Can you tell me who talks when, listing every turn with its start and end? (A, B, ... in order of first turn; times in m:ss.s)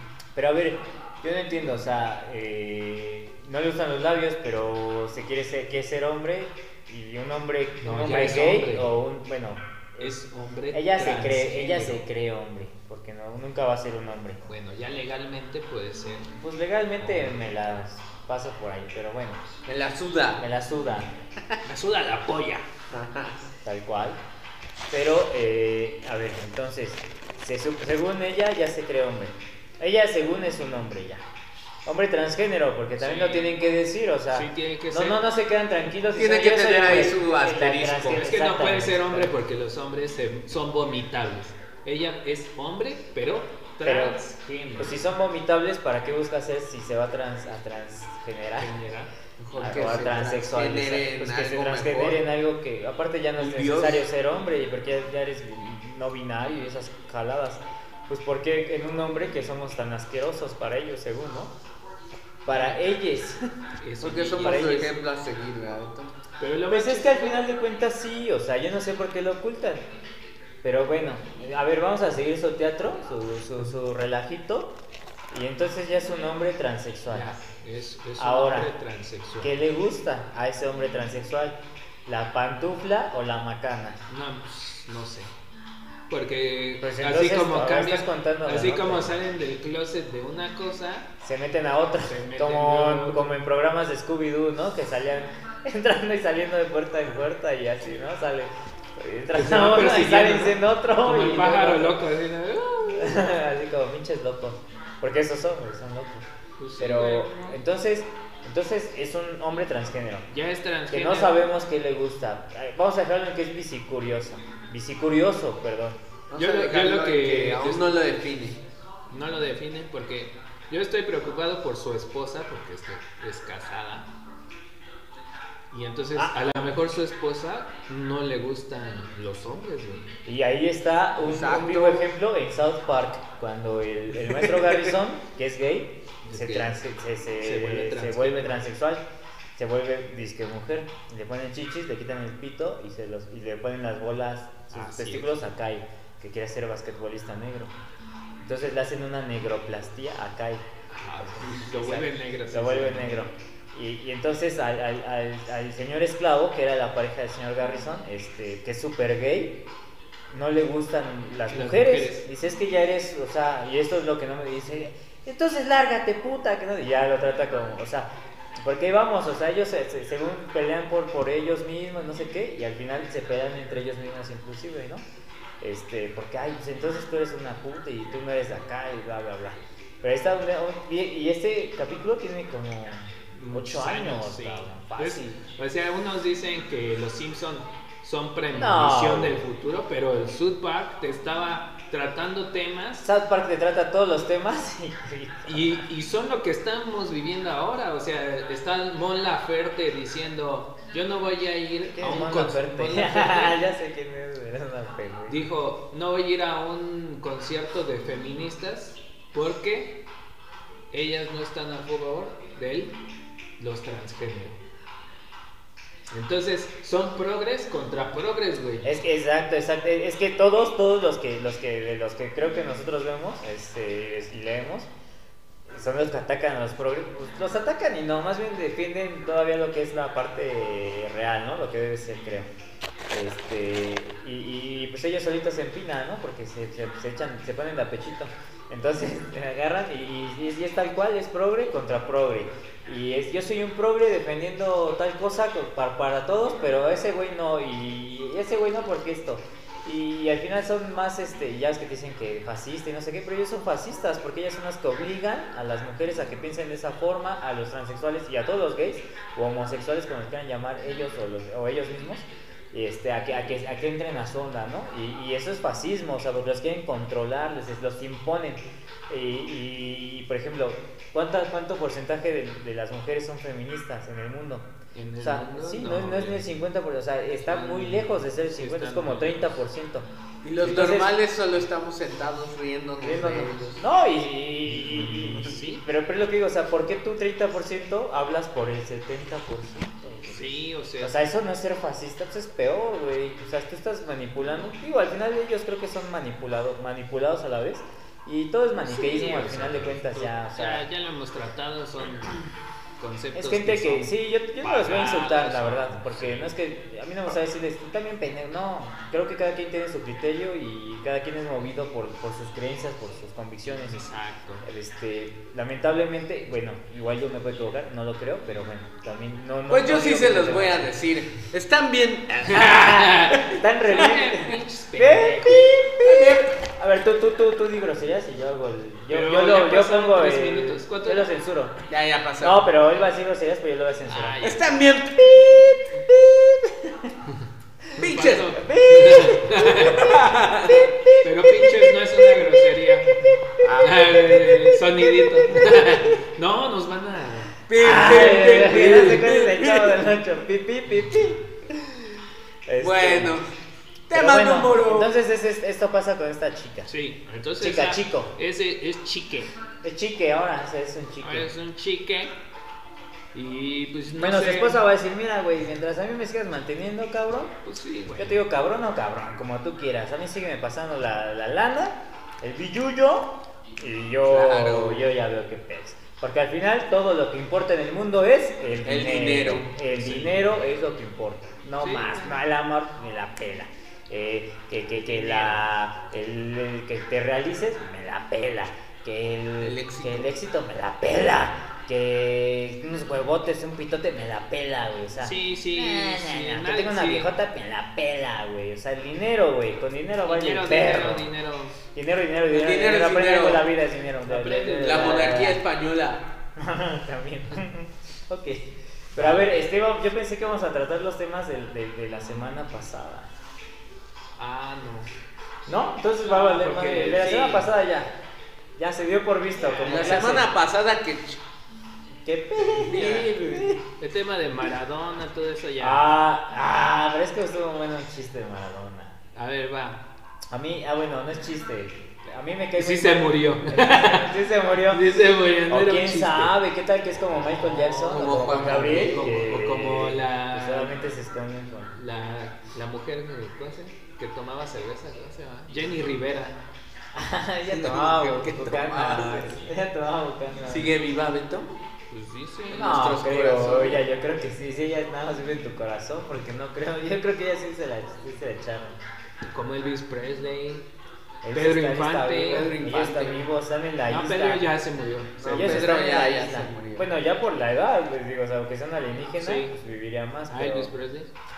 0:00.3-0:10.2 A
0:07.8-0:08.9 B
0:10.0-0:12.0 B
0:10.7-0:14.4 A
0:14.4-0:16.4 B
0:16.4-0:19.4 A
0:17.0-0:17.3 B
0:19.6-0:20.4 C
0:20.4-0:21.1 A
0:21.6-0:22.7 B
0:22.9-0:23.4 C
0:23.6-0:24.2 A
0:24.9-0:31.2 A
0:31.8-0:39.3 A
0:33.0-0:33.6 B
0:34.3-0:35.2 B
0:36.2-0:38.3 C
0:38.1-0:45.0 B
0:43.8-0:44.2 A
0:44.8-0:48.7 A
0:48.6-0:49.1 B
0:49.4-0:52.2 C
0:49.6-1:01.5 A
0:53.4-0:54.0 C
1:02.4-1:03.5 A
1:02.5-1:02.8 B
1:03.8-1:04.9 B
1:04.0-1:06.1 C
1:04.2-1:05.0 A
1:06.4-1:07.4 B
1:06.7-1:09.8 A
1:10.6-1:14.7 A
1:15.3-1:17.3 A
1:17.1-1:19.5 B
1:18.2-1:18.7 A
1:19.4-1:24.0 A
1:24.1-1:25.3 B
1:26.1-1:31.1 B
1:26.8-1:29.2 A
1:31.2-1:42.0 A
1:32.0-1:33.2 B
1:39.3-1:43.2 B
1:42.9-1:46.3 A
1:46.6-1:47.6 B
1:46.8-1:50.3 A
1:50.3-1:51.4 B
1:50.9-1:56.0 A
1:56.3-1:58.6 C
1:56.3-1:57.9 B
1:59.1-2:04.1 B
2:05.7-2:10.1 B
2:06.2-2:06.5 A
2:10.2-2:19.0 A
2:11.2-2:12.1 C
2:16.2-2:16.8 B
2:17.4-2:18.6 B
2:19.5-2:27.7 A
2:24.7-2:25.4 B
2:28.4-2:30.6 A
2:30.9-2:33.2 B
2:31.2-2:39.6 A
2:40.3-2:48.1 A
2:41.5-2:42.3 B
2:48.6-2:55.0 A
2:55.6-3:05.3 A
3:03.3-3:13.0 B
3:08.5-3:09.4 A
3:13.0-3:15.8 A
3:15.4-3:23.6 B
3:22.0-3:25.4 A
3:25.3-3:30.0 B
3:30.9-3:33.0 B
3:33.6-3:34.6 B
3:36.1-3:38.9 B
3:38.8-3:44.9 A
3:45.7-3:52.5 A
3:53.1-4:40.0 A
4:34.9-4:36.5 B
4:37.4-4:39.4 B
4:40.4-4:43.8 C
4:40.6-4:41.1 A
4:43.0-4:50.4 A
4:44.7-4:45.8 B
4:50.3-4:51.2 B
4:51.0-5:00.8 A
4:58.8-5:02.4 B
5:03.0-5:06.5 B
5:03.3-5:14.0 A
5:13.9-5:14.6 B
5:14.6-5:20.9 A
5:19.7-5:22.9 C
5:22.4-5:25.7 B
5:22.5-5:31.8 A
5:26.0-5:26.5 C
5:29.1-5:31.3 B
5:31.9-5:32.7 C
5:32.4-5:34.4 A
5:34.1-5:34.7 B
5:34.4-5:35.8 C
5:35.2-5:37.1 A
5:38.0-5:42.6 A
5:38.0-5:38.7 C
5:38.0-5:40.1 B
5:39.8-5:40.9 C
5:41.2-5:43.1 B
5:43.6-5:44.5 C
5:43.8-5:47.5 B
5:45.0-5:46.0 A
5:47.7-5:50.0 C
5:47.8-5:51.7 A
5:48.6-5:49.1 B
5:52.7-5:53.4 A
5:52.8-5:53.5 C
5:54.1-5:55.1 C
5:54.1-5:56.9 A
5:56.9-5:59.5 B
5:57.6-5:58.3 A
5:59.8-6:01.5 A
6:01.2-6:02.3 B
6:03.3-6:04.8 B
6:04.2-6:07.6 A
6:07.6-6:08.4 B
6:08.1-6:41.3 A
6:14.2-6:15.1 C
6:18.8-6:20.5 C
6:21.8-6:22.4 B
6:25.0-6:25.6 B
6:29.6-6:30.3 C
6:35.2-6:37.3 B
6:40.2-6:41.8 B
6:41.9-6:45.6 A
6:42.5-6:43.7 C
6:44.2-6:45.5 B
6:44.8-6:46.2 C
6:46.6-6:53.3 A
6:49.2-6:49.5 B
6:54.4-6:55.1 B
6:55.7-6:58.1 A
6:56.2-6:57.7 B
6:58.8-7:00.5 A
6:59.6-7:00.2 B
6:59.8-7:01.4 C
7:02.2-7:03.8 A
7:02.7-7:03.7 C
7:03.0-7:03.2 B
7:04.0-7:06.0 B
7:05.8-7:09.2 A
7:09.3-7:10.0 B
7:10.5-7:15.1 A
7:12.8-7:14.3 B
7:14.9-7:16.5 B
7:15.7-7:21.9 A
7:17.4-7:21.0 B
7:18.0-7:19.4 C
7:21.9-7:26.6 B
7:27.1-7:30.9 A
7:27.7-7:29.7 C
7:30.7-7:31.8 C
7:32.1-7:33.0 B
7:32.7-7:34.0 C
7:32.7-7:39.0 A
7:39.5-7:40.8 B
7:41.4-7:44.6 A
7:41.5-7:42.8 B
7:42.4-7:43.4 C
7:44.1-7:45.6 B
7:45.4-7:47.1 C
7:45.4-7:50.9 A
7:49.4-7:49.7 B
7:50.5-7:51.3 B